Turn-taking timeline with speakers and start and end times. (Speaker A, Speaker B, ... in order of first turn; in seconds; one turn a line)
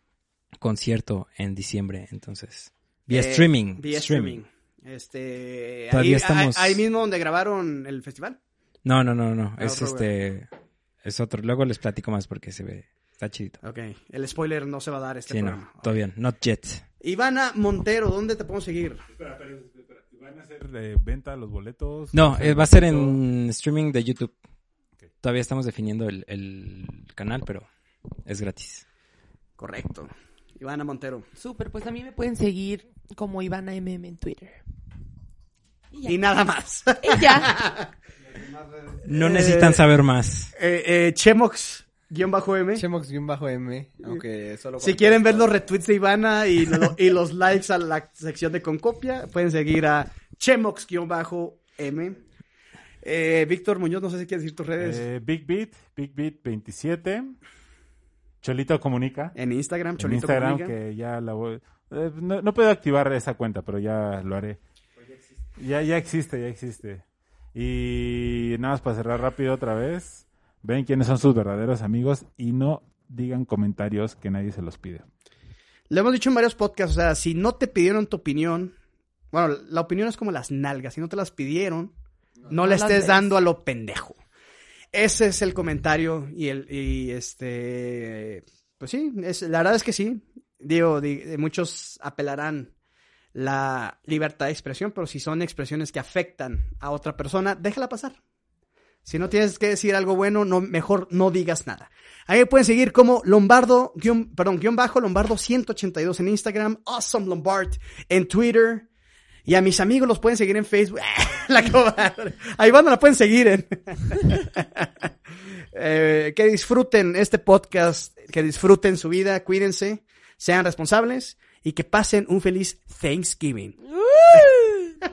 Speaker A: 0.6-4.4
Speaker B: 3.1-8.4
Speaker A: 5.9-6.8
Speaker A: 8.8-10.5
Speaker B: 9.6-10.1
Speaker A: 11.0-13.6
Speaker B: 13.6-15.9
Speaker A: 15.3-16.8
Speaker B: 17.0-19.0
Speaker C: 19.2-23.2
Speaker A: 22.1-24.3
Speaker A: 25.2-27.7
Speaker A: 28.2-28.8
Speaker B: 29.6-31.2
Speaker D: 31.4-34.6
Speaker B: 36.0-37.9
Speaker D: 37.0-37.5
Speaker E: 38.2-39.0
Speaker A: 39.0-40.5
Speaker B: 39.2-39.8
Speaker B: 40.6-42.8
Speaker E: 42.7-45.5
Speaker B: 44.8-52.2
Speaker B: 53.0-55.0
Speaker C: 54.8-57.3
Speaker C: 58.4-59.3
Speaker B: 59.3-60.8
Speaker C: 60.0-64.6
Speaker C: 65.5-67.0
Speaker C: 67.5-75.0
Speaker B: 75.9-78.7
Speaker B: 79.3-81.9
Speaker B: 82.5-84.2
Speaker D: 82.6-83.3
Speaker B: 84.9-92.7
Speaker B: 93.3-98.2
Speaker B: 99.0-108.9
Speaker B: 109.5-115.0
Speaker B: 115.7-123.8
Speaker D: 123.9-125.0